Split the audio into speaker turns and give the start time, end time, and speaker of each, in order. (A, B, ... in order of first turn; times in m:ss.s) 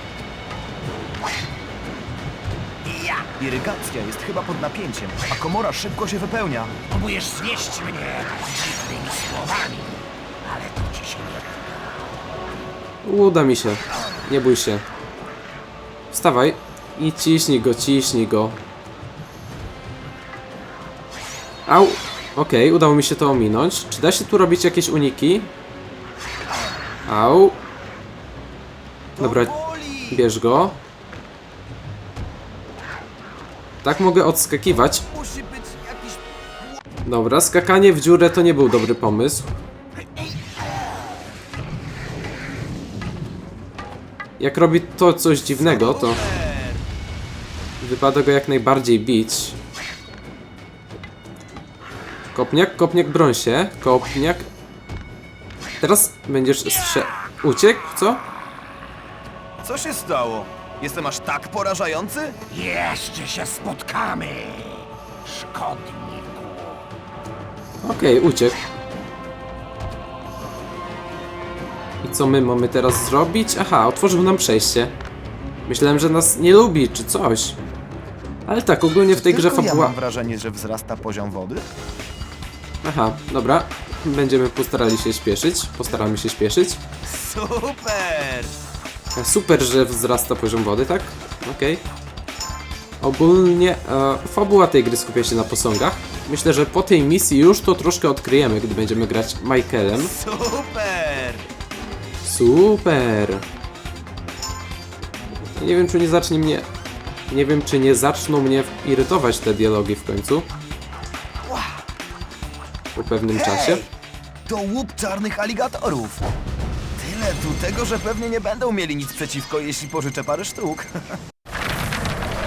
0:02.9-0:06.7 A
0:06.9-0:11.8 B
0:13.0-0:14.8 C
0:16.1-0:18.6 C
0:21.7-0:25.5 C
0:27.1-0:27.6 C
0:29.2-0:29.6 C
0:29.2-0:30.2 A
0:30.1-0:30.8 C
0:33.8-0:35.0 C
0:35.1-0:36.8 A
0:37.0-0:39.5 C
0:44.4-0:46.2 C
0:45.6-0:46.8 A
0:47.8-0:49.6 C
0:52.3-0:54.5 C
0:55.8-0:58.2 C
0:59.6-1:02.4 A
1:02.5-1:06.8 B
1:07.8-1:08.6 C
1:12.0-1:14.9 C
1:15.7-1:17.6 C
1:18.5-1:20.0 C
1:19.1-1:21.7 A
1:22.8-1:26.8 C
1:27.0-1:28.5 A
1:29.2-1:31.8 C
1:33.0-1:40.1 C
1:40.0-1:41.4 A
1:42.2-1:43.4 C
1:45.6-1:46.7 C
1:47.3-1:50.5 C
1:51.5-1:51.8 A
1:53.0-1:53.8 C
1:53.3-1:53.9 A
1:54.5-1:56.3 A
1:57.0-2:01.2 A